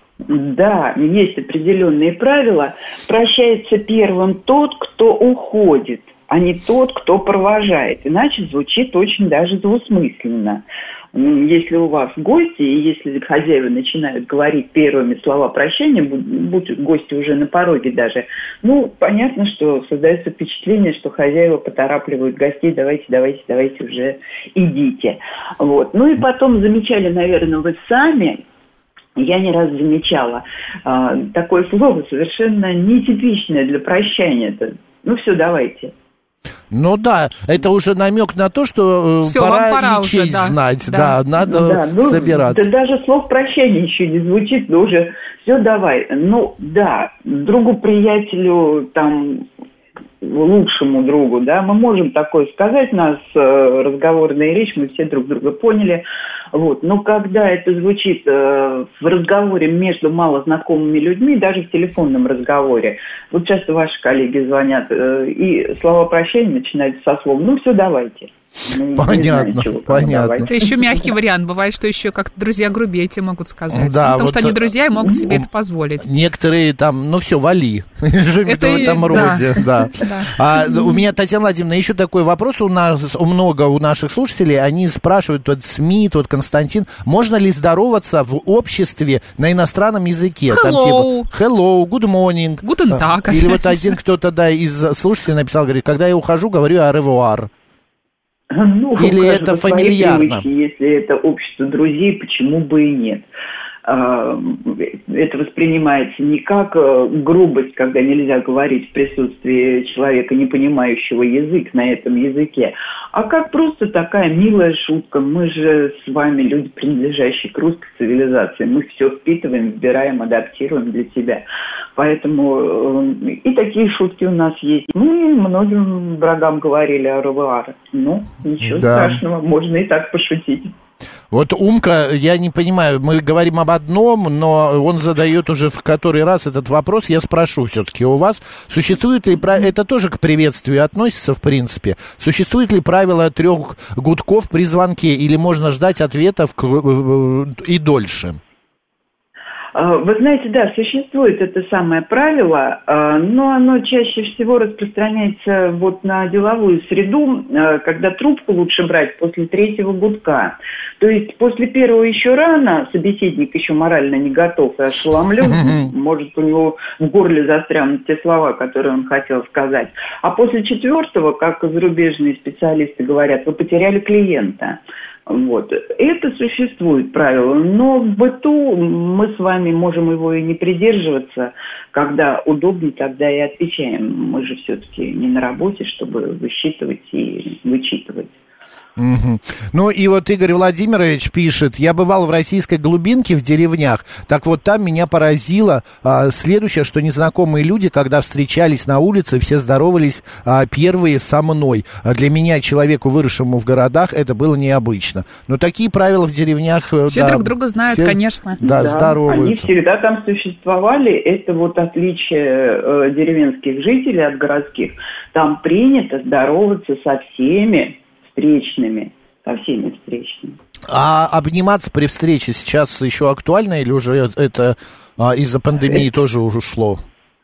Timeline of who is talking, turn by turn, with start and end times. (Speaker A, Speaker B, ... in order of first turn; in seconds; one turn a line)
Speaker A: 0.2-28.4
Speaker A: 29.1-35.9
Speaker B: 36.7-42.7
Speaker C: 39.2-41.1
Speaker A: 41.4-49.5
Speaker A: 50.2-70.6
Speaker B: 69.0-70.5
Speaker C: 70.5-76.0
Speaker B: 73.7-75.4
Speaker B: 76.0-97.5
Speaker C: 78.4-80.9
Speaker C: 90.5-91.3
Speaker C: 92.6-94.0
Speaker A: 98.5-103.3
Speaker B: 99.0-100.4
Speaker A: 103.8-130.7
Speaker B: 128.6-129.2
Speaker B: 131.3-148.4
Speaker A: 149.7-188.4
Speaker B: 165.4-165.9
Speaker B: 189.0-209.7
Speaker C: 207.1-208.6
Speaker A: 208.6-220.6
Speaker B: 220.9-227.0